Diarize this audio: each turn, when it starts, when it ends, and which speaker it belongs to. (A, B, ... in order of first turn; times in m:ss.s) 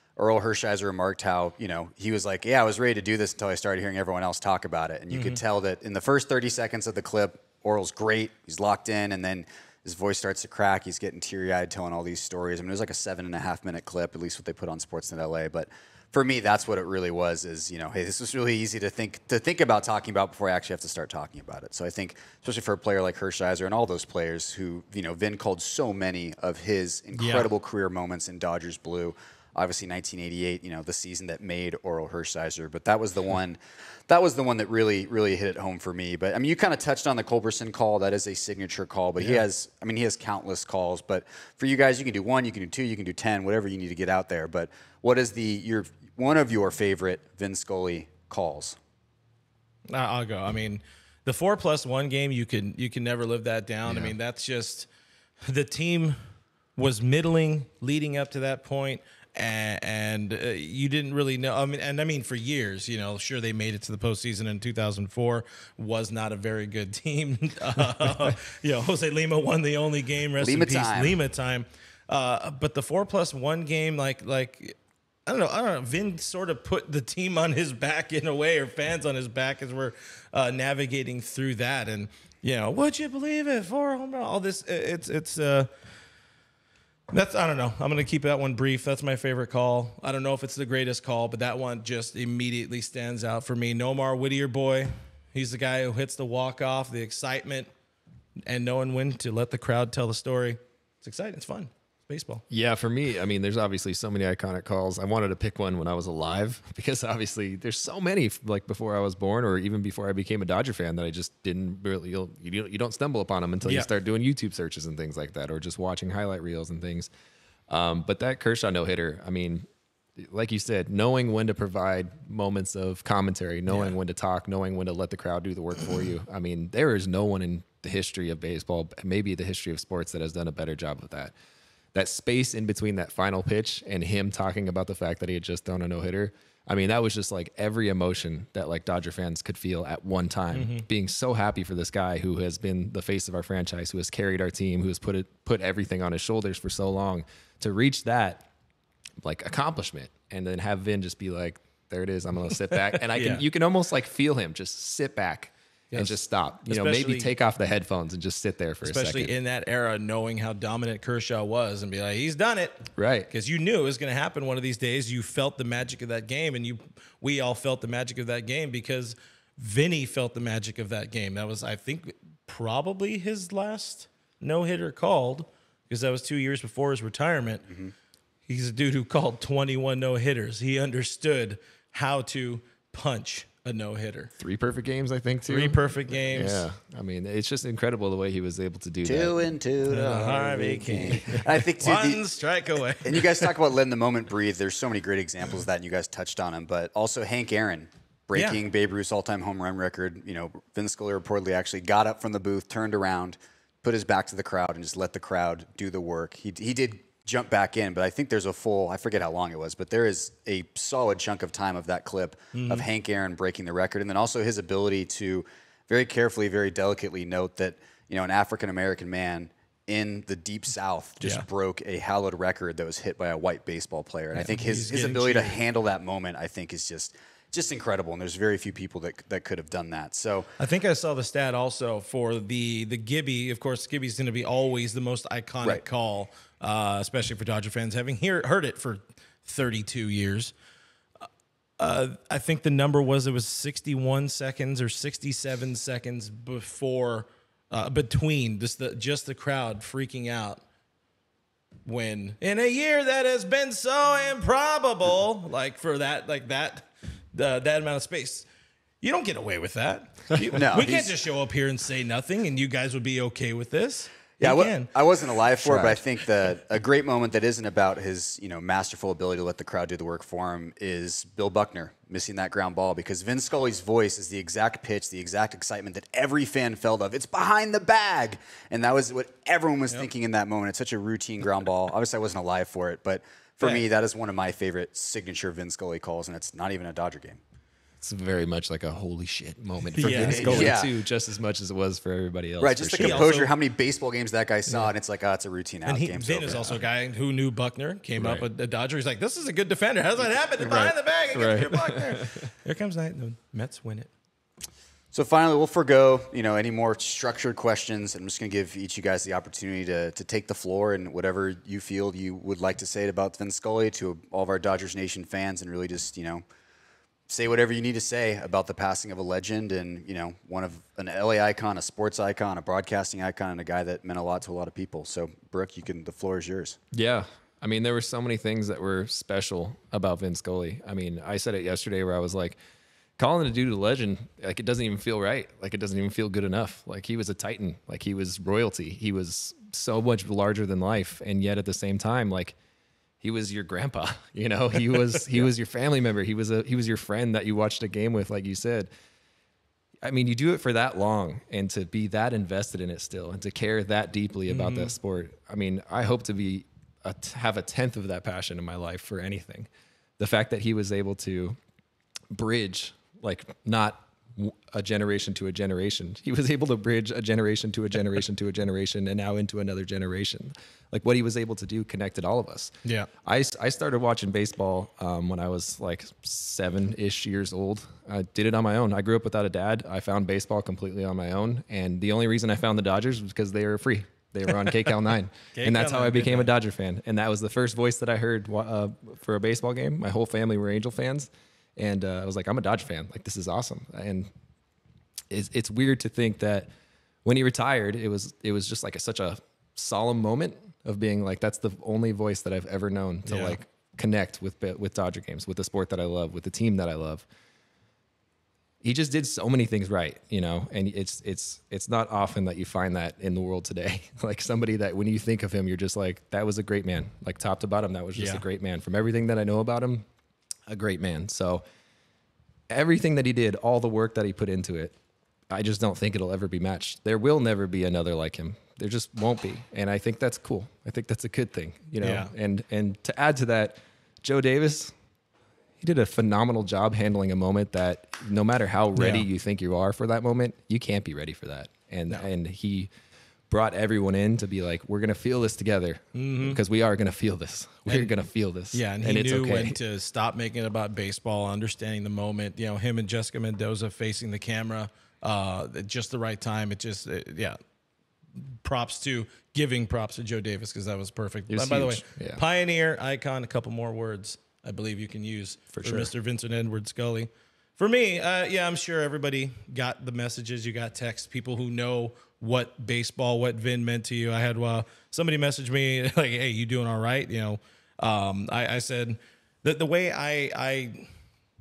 0:00.2-0:48.8 A
0:05.1-0:05.4 B
0:27.1-0:27.5 B
0:49.9-0:54.9 B
0:53.9-0:54.2 C
0:55.5-0:56.2 B
0:56.8-1:25.7 B
1:10.4-1:11.2 A
1:27.1-1:37.7 B
1:38.5-1:42.4 B
1:42.5-1:57.1 C
1:53.6-1:53.9 B
1:57.7-1:59.6 C
2:00.2-2:11.3 C
2:03.7-2:04.0 B
2:11.9-2:28.5 C
2:20.5-2:20.9 B
2:29.2-2:39.3 C
2:32.7-2:33.4 B
2:35.9-2:37.3 B
2:38.8-2:57.6 B
2:43.0-2:43.3 C
2:57.7-2:57.9 A
2:58.5-3:04.3 B
3:04.4-3:09.4 C
3:05.5-3:06.7 B
3:09.0-3:12.2 A
3:09.9-3:13.5 B
3:13.0-3:50.5 A
3:18.3-3:18.6 B
3:32.5-3:32.9 B
3:41.2-3:41.5 B
3:44.3-3:45.6 B
3:50.6-4:00.5 B
4:01.8-4:10.6 B
4:11.8-4:18.5 B
4:19.0-4:24.9 B
4:20.5-4:21.1 A
4:24.4-4:47.4 A
4:25.6-4:26.0 C
4:43.6-4:43.9 B
4:48.0-4:53.3 C
4:50.0-4:50.8 B
4:50.1-4:50.9 A
4:52.6-4:56.8 A
4:53.0-4:53.5 B
4:55.9-5:04.1 B
4:58.2-4:58.4 C
5:00.6-5:00.9 A
5:01.3-5:02.5 C
5:05.1-5:16.4 A
5:17.3-5:26.8 A
5:26.9-5:32.6 C
5:33.2-5:42.6 C
5:43.2-5:48.9 C
5:50.0-5:59.7 C
5:54.5-5:55.0 B
6:00.2-6:01.6 C
6:02.3-6:12.7 C
6:12.8-6:13.1 B
6:13.2-6:34.3 C
6:25.5-6:26.5 B
6:35.3-6:36.7 C
6:37.2-6:47.2 C
6:43.3-6:43.6 B
6:48.8-7:00.1 C
6:58.2-6:58.4 B
7:00.7-7:01.6 C
7:02.7-7:05.0 C
7:05.5-7:14.9 C
7:12.0-7:12.3 B
7:15.8-7:22.9 C
7:19.0-7:19.3 B
7:23.5-7:29.8 C
7:26.1-7:26.6 B
7:27.9-7:28.1 B
7:28.7-7:37.6 B
7:38.4-8:01.1 B
7:41.5-7:42.4 C
7:45.7-7:46.1 C